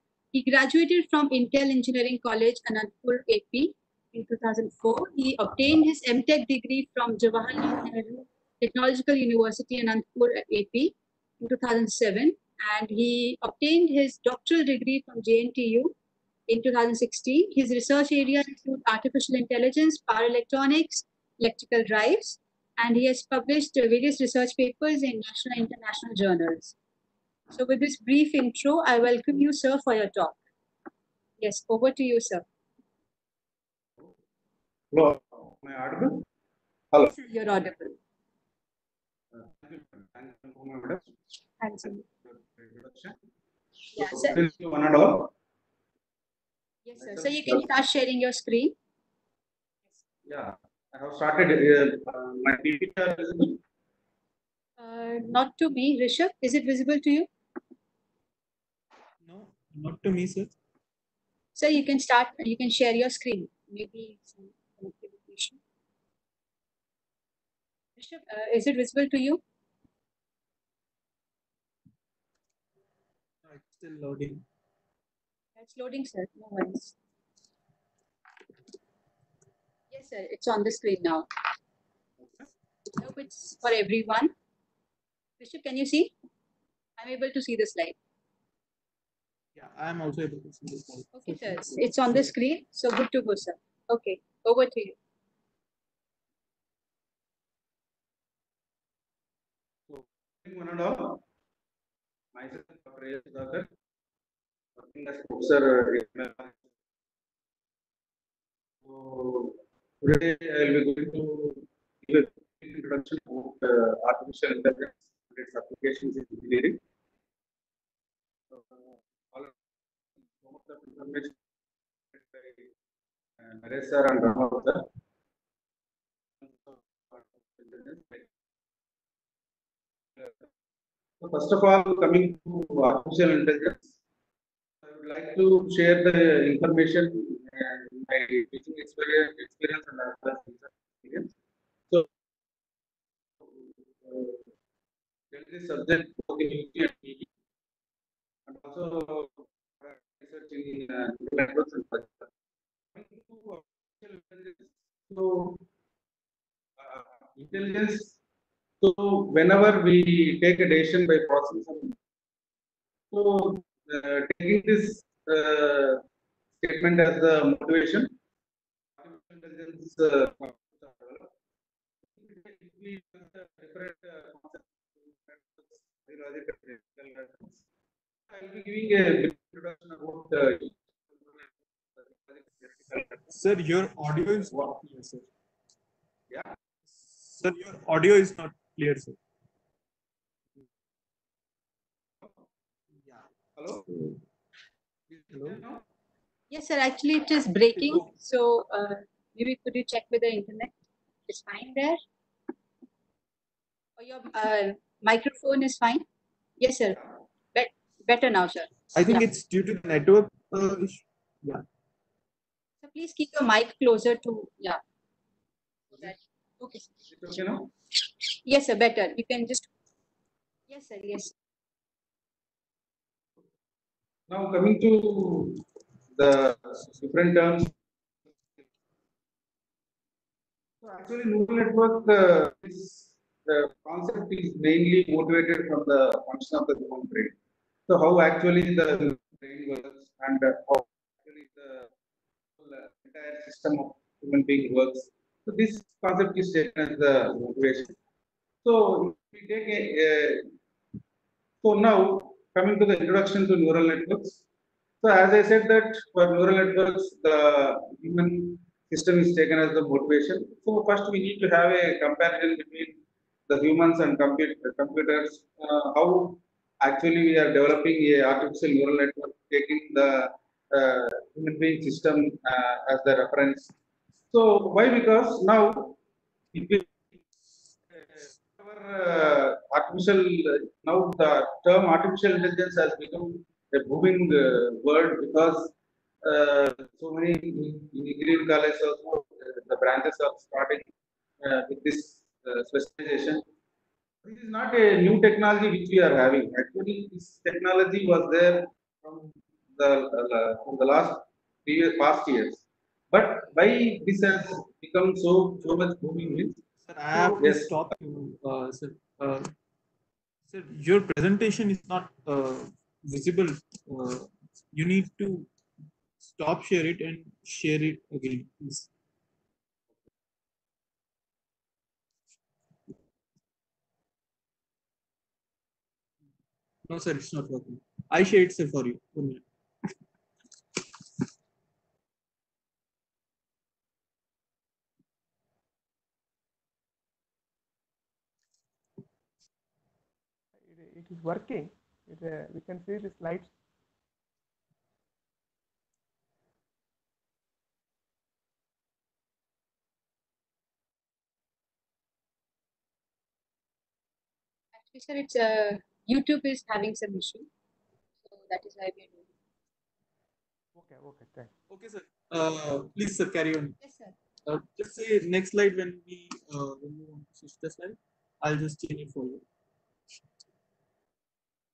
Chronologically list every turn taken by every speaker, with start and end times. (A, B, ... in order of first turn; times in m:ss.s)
0:00.3-0:15.9 A
0:16.5-0:26.8 A
0:27.5-0:30.4 A
0:31.4-0:32.4 A
0:34.9-0:36.2 B
0:37.1-0:38.0 A
0:39.3-0:41.1 B
0:41.6-0:42.0 A
0:42.2-0:43.2 B
0:43.9-0:44.4 A
0:44.0-0:45.3 B
0:46.8-0:48.7 A
0:47.0-0:47.6 B
0:50.2-0:53.6 B
0:54.8-0:57.3 A
0:59.2-1:00.5 C
1:01.5-1:05.6 A
1:08.0-1:09.4 A
1:13.4-1:14.4 C
1:15.6-1:16.9 A
1:19.9-1:21.3 A
1:23.0-1:24.3 A
1:25.4-1:26.1 A
1:27.0-1:28.0 A
1:29.5-1:32.3 C
1:31.1-1:35.0 A
1:39.9-1:41.2 B
1:42.3-1:43.7 B
1:44.8-1:46.7 B
1:48.8-1:56.8 B
1:58.5-1:59.6 B
2:00.2-2:01.4 B
2:02.1-2:02.7 B
2:03.4-2:04.8 B
2:06.4-2:08.3 B
2:10.2-2:10.5 B
2:11.2-2:13.9 B
2:14.8-2:21.3 B
2:23.4-2:24.4 B
2:25.3-2:27.3 B
2:28.5-2:32.3 B
2:32.9-2:35.6 B
2:36.8-2:38.1 B
2:38.8-2:42.0 B
2:43.1-2:46.0 B
2:46.6-2:48.1 B
2:49.0-2:51.3 B
2:52.1-2:57.6 B
2:58.3-3:03.3 B
3:03.3-3:05.3 C
3:06.3-3:06.6 B
3:06.9-3:09.2 C
3:13.6-3:13.8 B
3:13.8-3:14.2 C
3:15.1-3:15.8 B
3:15.3-3:15.6 C
3:16.5-3:20.7 A
3:21.3-3:22.0 A
3:24.0-3:26.0 A
3:26.6-3:27.0 A
3:27.5-3:29.2 A
3:28.9-3:31.6 C
3:32.8-3:34.8 A
3:35.9-3:36.9 A
3:37.1-3:37.7 B
3:38.4-3:39.7 A
3:40.7-3:41.3 A
3:44.3-3:45.6 B
3:46.1-3:47.7 B
3:50.8-3:57.3 B
3:57.9-4:01.9 B
4:02.6-4:08.0 B
4:08.6-4:10.5 B
4:11.6-4:14.4 B
4:15.0-4:33.7 B
4:34.3-4:36.0 B
4:36.5-4:37.2 B
4:37.9-4:50.9 B
4:51.4-4:53.4 B
4:54.2-5:06.6 B
5:06.8-5:09.5 C
5:07.1-5:07.7 B
5:10.5-5:15.5 C
5:16.2-5:18.9 C
5:26.9-5:29.4 C
5:40.6-5:43.5 D
5:54.7-5:57.5 A
5:58.2-5:59.3 A
6:00.7-6:01.5 D
6:01.7-6:03.8 C
6:03.8-6:04.2 A
6:04.4-6:09.4 C